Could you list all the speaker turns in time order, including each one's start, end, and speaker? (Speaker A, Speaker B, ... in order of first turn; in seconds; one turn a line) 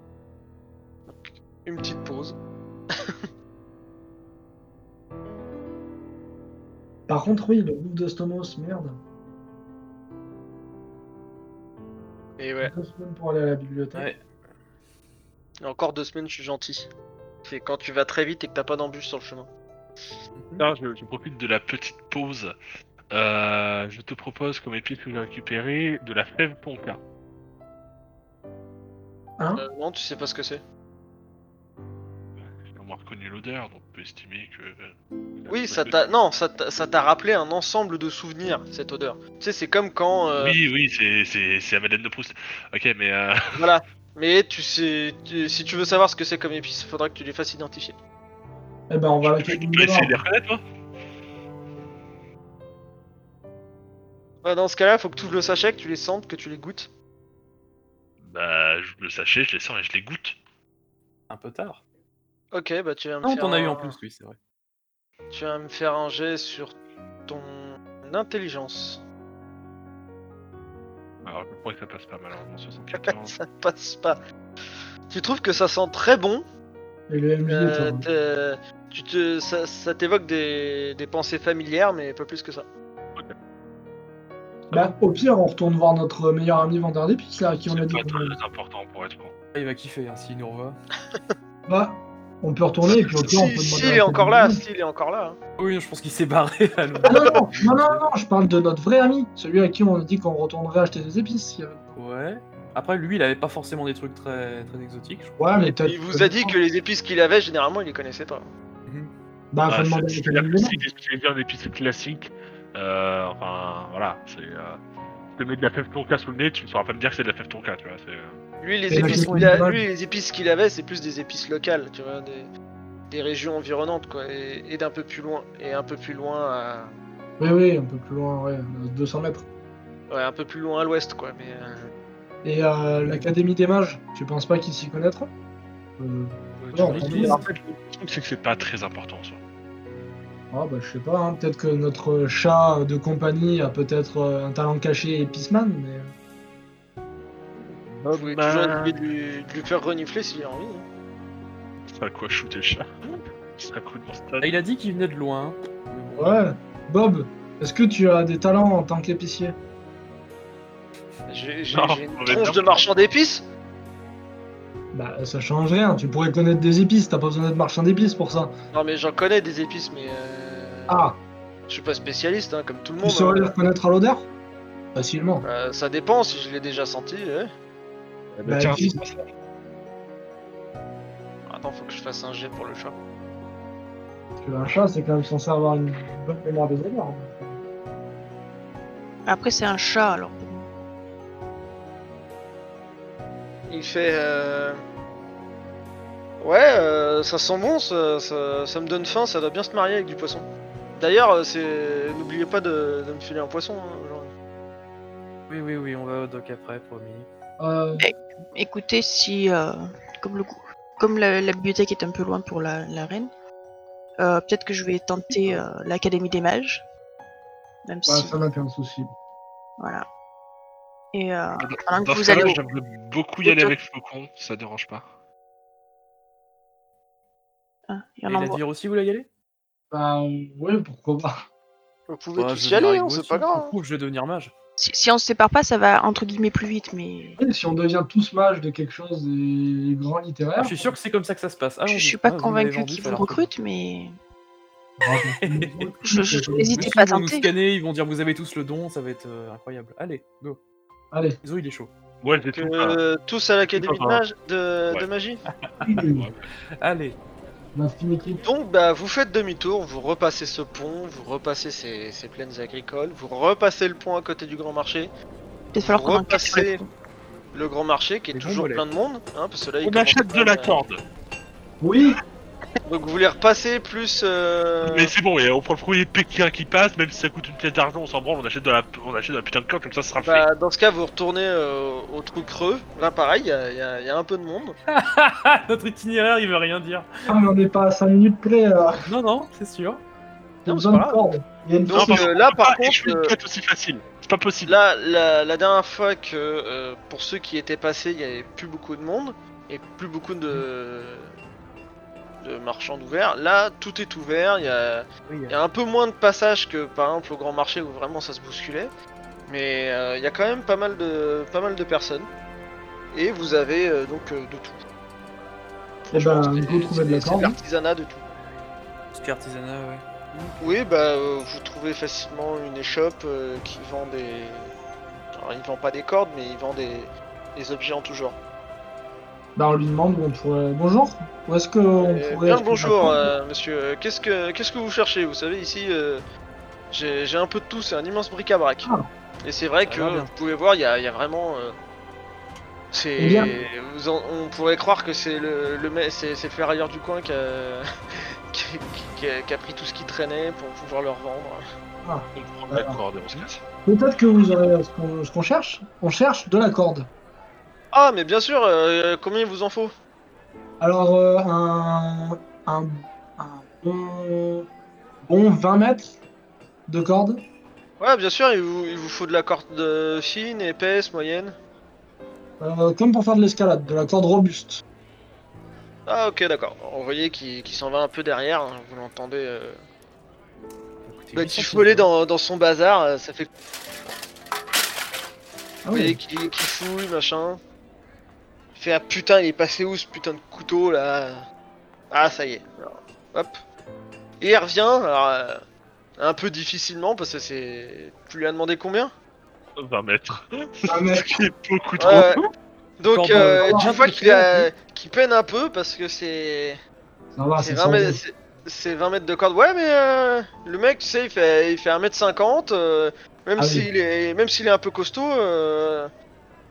Speaker A: 1.1-2.4
Speaker A: 2.9-3.2
Speaker B: 7.1-9.0
Speaker A: 12.4-12.7
Speaker B: 12.6-14.1
Speaker C: 13.9-14.2
Speaker A: 15.6-16.9
Speaker A: 17.4-19.5
Speaker C: 20.3-20.6
Speaker D: 20.6-22.5
Speaker D: 23.1-27.0
Speaker B: 29.4-29.6
Speaker A: 29.5-30.6
Speaker D: 32.4-36.0
Speaker A: 35.5-40.6
Speaker D: 40.4-43.5
Speaker A: 43.5-48.0
Speaker B: 48.9-50.1
Speaker D: 49.2-50.6
Speaker A: 54.4-56.9
Speaker D: 58.2-60.4
Speaker C: 61.3-61.8
Speaker A: 62.5-63.9
Speaker C: 63.2-64.4
Speaker A: 65.3-69.0
Speaker D: 71.2-73.3
Speaker A: 73.0-74.2
Speaker A: 75.1-76.4
Speaker B: 77.1-78.1
Speaker A: 77.5-82.7
Speaker B: 84.7-88.3
Speaker D: 87.7-89.3
Speaker C: 89.5-90.8
Speaker B: 91.7-94.6
Speaker D: 92.8-93.4
Speaker A: 93.1-95.4
Speaker C: 95.6-98.0
Speaker B: 97.0-101.8
Speaker A: 97.1-97.3
Speaker C: 101.9-105.7
Speaker B: 105.4-106.5
Speaker A: 105.7-108.5
Speaker C: 108.8-109.1
Speaker B: 109.5-110.8
Speaker D: 109.7-114.8
Speaker D: 115.3-118.3
Speaker A: 118.6-122.5
Speaker B: 118.9-119.8
Speaker A: 123.1-126.9
Speaker B: 127.4-129.5
Speaker A: 130.1-131.9
Speaker B: 132.4-135.3
Speaker B: 136.0-137.4
Speaker D: 136.6-139.4
Speaker C: 136.8-137.4
Speaker B: 140.5-146.1
Speaker D: 147.7-148.9
Speaker A: 148.1-150.8
Speaker D: 151.9-154.5
Speaker C: 154.4-156.4
Speaker B: 156.2-159.6
Speaker A: 161.3-163.5
Speaker D: 161.7-162.8
Speaker B: 164.9-168.5
Speaker A: 168.7-171.1
Speaker B: 170.9-171.2
Speaker A: 171.7-173.6
Speaker B: 173.0-174.3
Speaker B: 174.9-175.4
Speaker A: 175.4-177.5
Speaker D: 178.3-179.2
Speaker B: 178.4-179.0
Speaker A: 181.5-183.0
Speaker B: 184.4-187.6
Speaker E: 189.2-190.7
Speaker A: 193.7-194.8
Speaker A: 196.4-204.3
Speaker C: 205.5-207.3
Speaker B: 207.6-208.1
Speaker E: 208.0-213.3
Speaker E: 214.2-216.8
Speaker E: 217.8-218.4
Speaker B: 218.1-219.1
Speaker E: 219.8-220.0
Speaker E: 221.1-222.6
Speaker D: 221.6-225.1
Speaker B: 222.3-222.5
Speaker E: 223.4-223.7
Speaker E: 227.9-228.6
Speaker C: 228.3-229.3
Speaker B: 229.9-231.4
Speaker A: 232.1-233.7
Speaker C: 232.3-234.5
Speaker E: 234.8-237.4
Speaker B: 237.4-240.9
Speaker C: 240.6-243.5
Speaker E: 241.9-244.2
Speaker B: 245.0-246.9
Speaker C: 245.4-250.6
Speaker E: 246.0-247.5
Speaker B: 251.1-251.4
Speaker C: 251.4-251.9
Speaker D: 252.2-253.0
Speaker A: 252.5-255.4
Speaker D: 253.7-254.2
Speaker C: 255.5-255.9
Speaker B: 255.8-256.2
Speaker D: 256.1-256.4
Speaker C: 256.8-257.2
Speaker B: 257.7-258.4
Speaker A: 258.4-265.1
Speaker E: 265.7-266.9
Speaker A: 265.7-266.8
Speaker A: 267.5-270.8
Speaker C: 268.3-268.8
Speaker D: 269.8-271.0
Speaker B: 271.8-272.1
Speaker A: 272.9-275.1
Speaker D: 274.8-280.4
Speaker A: 280.2-284.8
Speaker C: 284.9-287.3
Speaker B: 287.3-289.0
Speaker C: 289.1-290.0
Speaker B: 290.6-292.3
Speaker A: 290.7-291.2
Speaker A: 291.9-293.3
Speaker D: 291.9-294.8
Speaker A: 294.6-301.3
Speaker A: 302.4-308.9
Speaker C: 305.3-305.6
Speaker A: 309.5-312.3
Speaker A: 313.1-314.8
Speaker A: 316.1-318.2
Speaker B: 316.1-317.6
Speaker C: 319.1-320.7
Speaker A: 320.6-324.7
Speaker A: 325.3-328.4
Speaker B: 329.6-333.3
Speaker A: 332.0-336.2
Speaker A: 336.9-338.9
Speaker A: 339.4-341.8
Speaker C: 339.8-340.3
Speaker A: 342.9-347.8
Speaker B: 343.2-343.5
Speaker A: 348.5-351.6
Speaker B: 352.0-357.1
Speaker D: 352.4-353.6
Speaker A: 357.9-359.9
Speaker B: 360.8-364.6
Speaker B: 365.2-366.2
Speaker B: 366.9-367.4
Speaker A: 368.0-371.6
Speaker B: 372.6-374.8
Speaker A: 376.1-379.8
Speaker C: 381.0-382.1
Speaker A: 381.3-383.5
Speaker B: 385.8-386.2
Speaker A: 385.9-387.6
Speaker A: 388.7-391.4
Speaker A: 392.1-393.6
Speaker A: 394.4-395.6
Speaker A: 396.2-399.1
Speaker D: 399.8-402.4
Speaker B: 400.9-401.3
Speaker A: 402.0-402.4
Speaker A: 403.0-406.8
Speaker C: 403.1-404.7
Speaker B: 403.3-404.0
Speaker B: 407.3-408.2
Speaker A: 407.6-416.1
Speaker B: 413.6-413.9